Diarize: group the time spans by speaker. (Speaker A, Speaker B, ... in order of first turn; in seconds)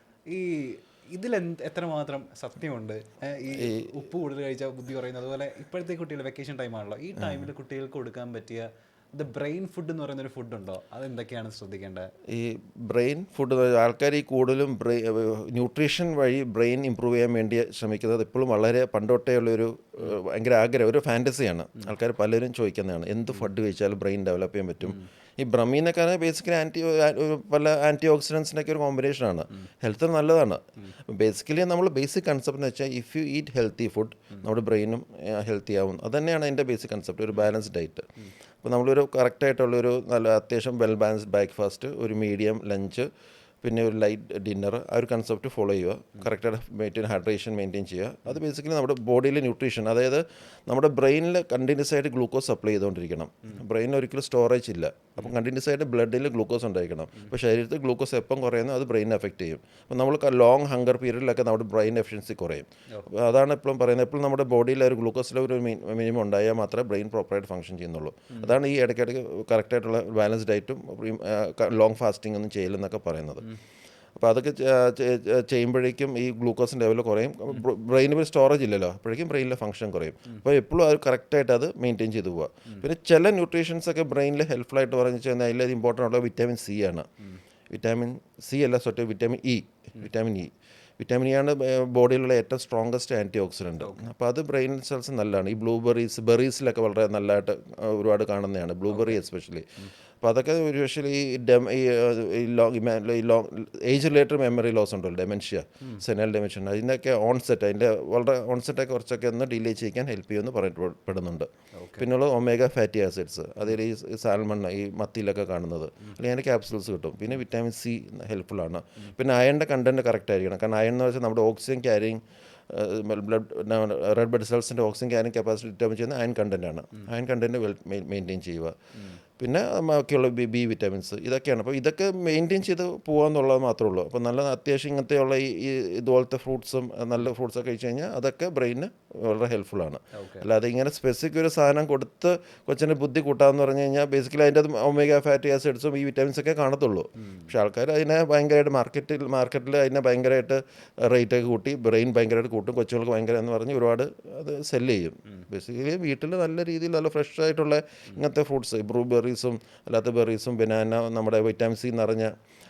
Speaker A: 0.3-12.1, 98.9-99.2, 111.8-112.1, 140.1-140.4, 147.2-147.5
Speaker B: 3.5-3.9, 12.3-38.0, 38.6-43.1, 43.6-73.5, 74.2-87.1, 87.7-99.7, 100.2-128.8, 129.4-162.3